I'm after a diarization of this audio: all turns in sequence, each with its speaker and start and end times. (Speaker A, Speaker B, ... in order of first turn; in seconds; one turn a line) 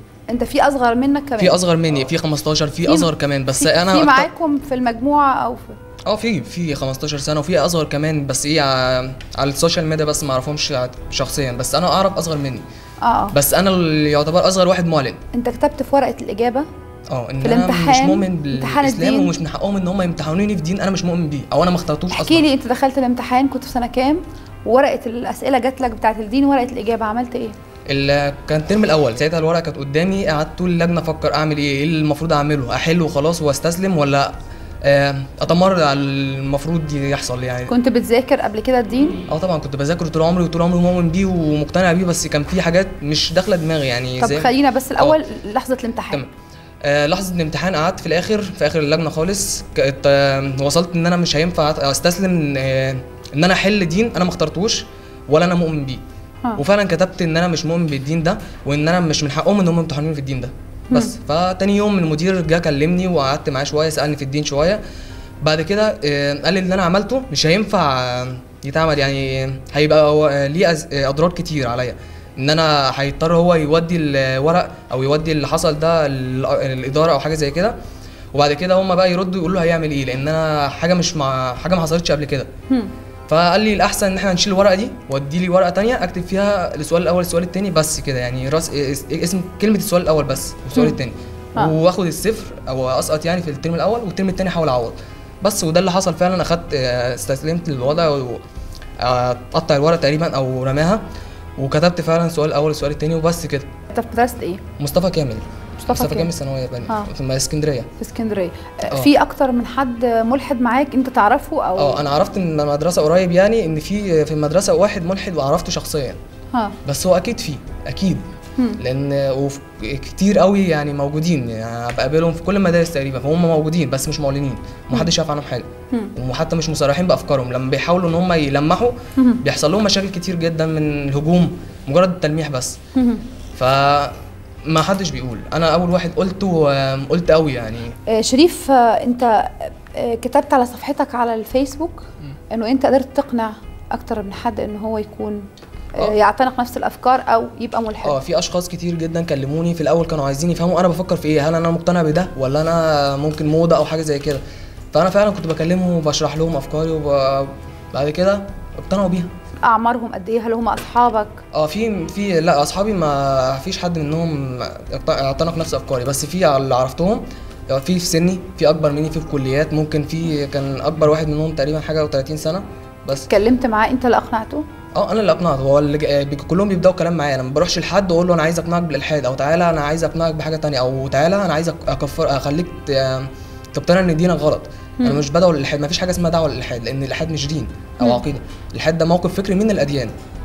Speaker A: 0.3-1.6
Speaker B: 1.4-4.3
Speaker A: 2.9-5.8
Speaker B: 6.0-12.6
Speaker A: 13.0-13.3
Speaker B: 13.3-15.2
Speaker A: 15.3-16.6
Speaker B: 17.1-22.4
Speaker A: 17.4-19.3
Speaker A: 22.1-27.5
Speaker B: 27.9-34.3
Speaker B: 34.8-37.7
Speaker A: 37.7-39.2
Speaker B: 39.3-44.5
Speaker A: 44.2-46.2
Speaker B: 46.8-56.0
Speaker B: 56.6-64.8
Speaker A: 60.9-61.1
Speaker B: 65.4-77.7
Speaker B: 78.3-82.5
Speaker B: 83.3-98.4
Speaker B: 99.0-101.0
Speaker B: 101.6-103.7
Speaker A: 103.9-104.6
Speaker B: 104.8-107.9
Speaker A: 105.8-106.3
Speaker A: 108.0-112.0
Speaker B: 111.8-116.2
Speaker B: 116.8-118.2
Speaker B: 118.8-132.8
Speaker A: 132.9-133.2
Speaker B: 133.6-134.1
Speaker B: 134.7-137.9
Speaker A: 138.1-145.4
Speaker A: 146.0-148.2
Speaker B: 148.0-154.4
Speaker B: 154.9-159.3
Speaker A: 159.6-161.4
Speaker B: 161.5-173.3
Speaker A: 173.3-174.6
Speaker B: 174.9-190.1